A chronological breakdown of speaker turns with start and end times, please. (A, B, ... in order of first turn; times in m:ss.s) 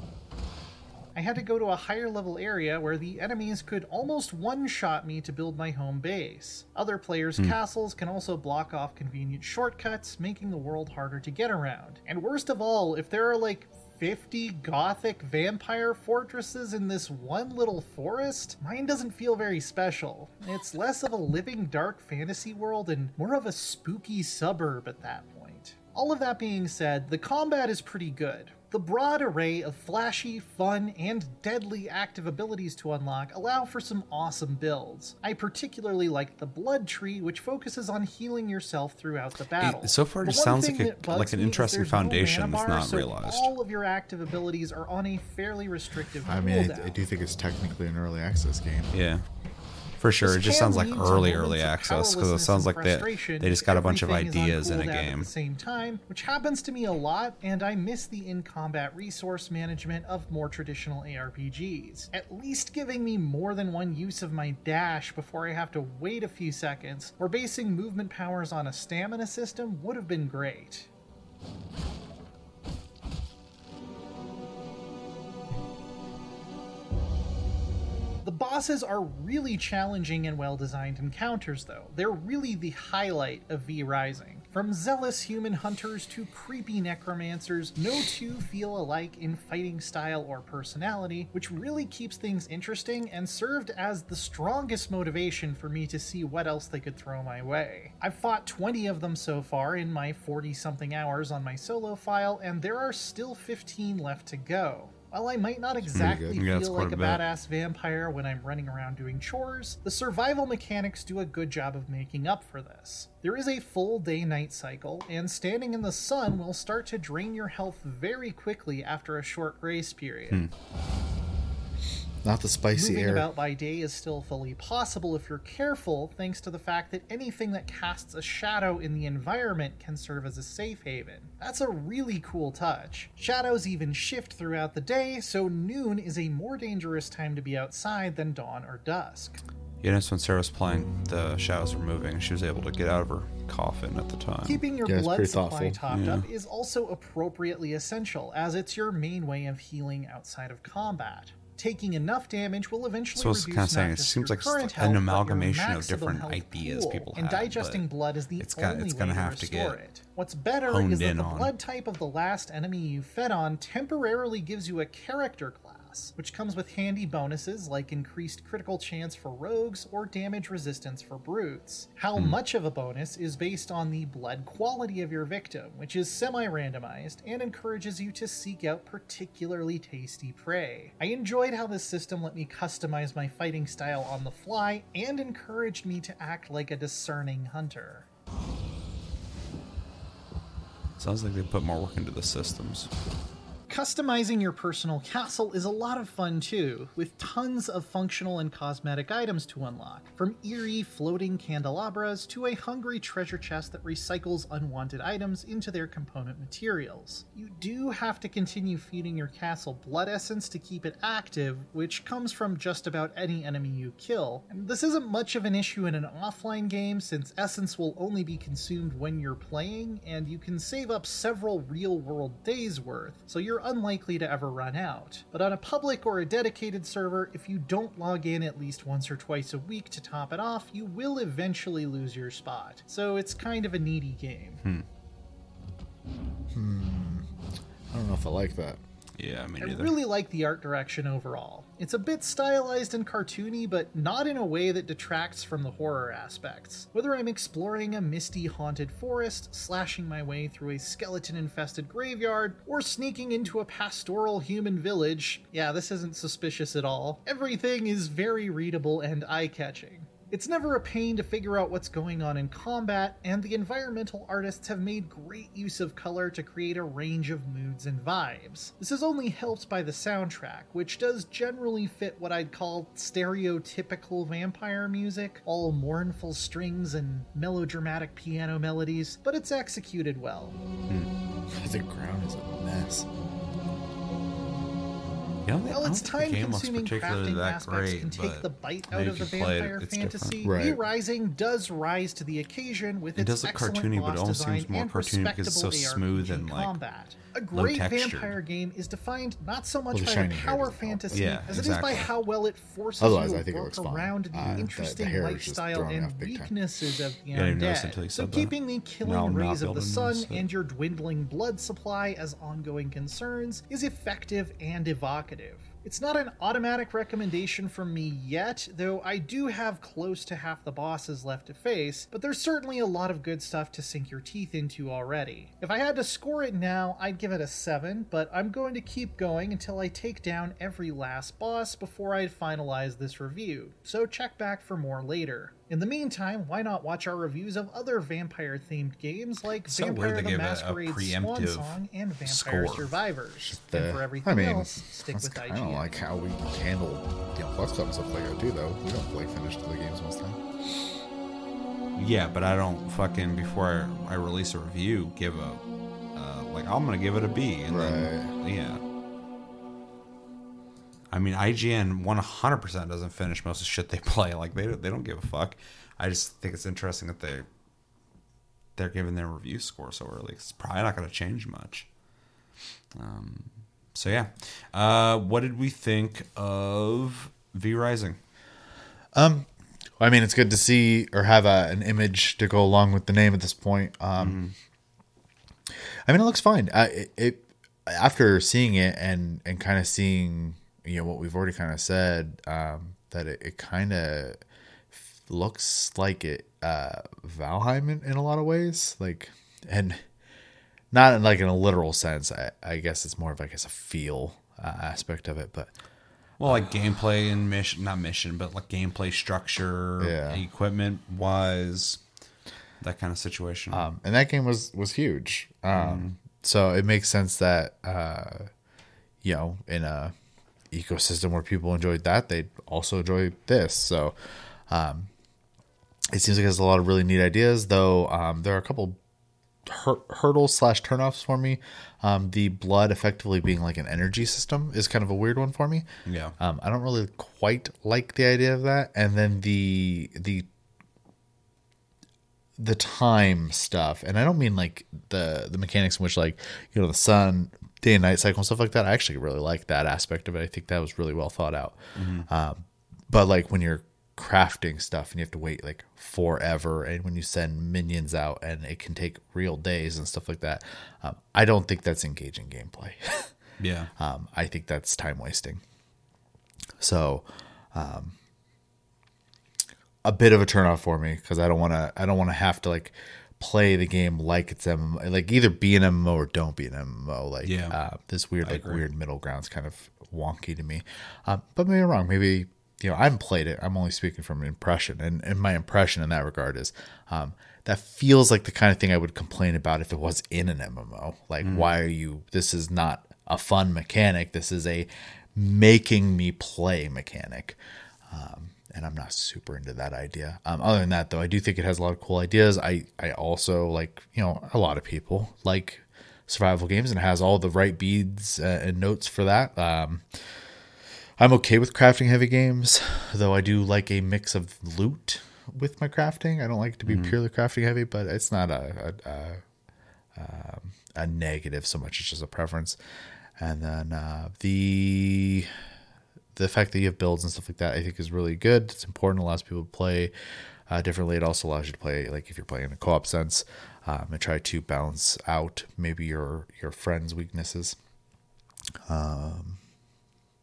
0:01.1-0:47.0 A
0:39.6-0:43.5 B
0:46.2-0:48.9 C
0:48.9-0:49.2 B
0:50.0-0:55.3 B
0:50.2-1:10.9 A
1:18.2-2:00.4 A
1:45.8-1:46.4 C
1:45.9-1:47.2 B
2:02.2-2:03.3 C
2:02.7-2:19.4 A
2:19.8-2:24.6 B
2:24.4-3:08.0 A
2:24.8-2:25.8 C
2:25.9-2:26.3 B
2:33.1-2:37.8 B
2:38.4-2:39.8 B
2:40.6-2:41.5 B
3:11.0-3:12.9 B
3:13.7-3:54.6 A
3:56.5-3:57.3 C
3:57.9-3:58.8 C
3:59.2-3:59.9 B
3:59.6-4:40.6 A
4:41.5-4:43.1 C
4:45.4-4:50.4 B
4:45.7-5:45.9 A
4:50.4-4:50.8 C
4:53.2-4:56.7 B
4:57.5-4:58.3 B
4:59.9-5:01.6 C
5:01.1-5:02.1 B
5:03.0-5:06.5 C
5:07.3-5:10.4 B
5:39.7-5:43.0 B
5:43.5-5:50.8 C
5:52.0-5:55.6 B
5:56.1-5:58.8 B
5:57.7-5:58.3 C
6:01.1-6:07.4 B
6:08.8-6:11.9 B
6:12.9-6:18.2 B
6:19.1-6:19.5 C
6:20.0-6:24.4 C
6:24.2-6:24.5 B
6:26.1-6:34.4 C
6:34.9-6:40.0 C
6:40.9-6:45.7 C
6:46.4-6:52.0 B
6:50.0-6:50.4 C
6:52.8-6:53.9 B
6:53.7-6:58.5 C
6:55.7-6:56.1 B
6:59.2-7:00.1 C
7:00.7-7:04.2 C
7:04.7-7:05.1 C
7:06.1-7:09.0 C
7:09.6-7:15.8 C
7:16.0-7:16.4 B
7:16.4-7:20.5 C
7:22.6-7:43.3 C
7:31.9-7:32.3 B
7:43.6-7:43.9 B
7:44.0-7:45.6 C
7:46.8-7:48.1 C
7:50.0-8:30.2 C
7:57.4-7:57.8 B
7:58.4-7:58.8 B
8:11.4-8:11.7 B
8:31.2-8:39.4 C
8:36.8-8:37.2 B
8:40.1-8:42.8 C
8:43.4-8:45.5 C
8:46.3-8:50.1 C
8:50.7-8:57.8 C
8:58.9-8:59.6 C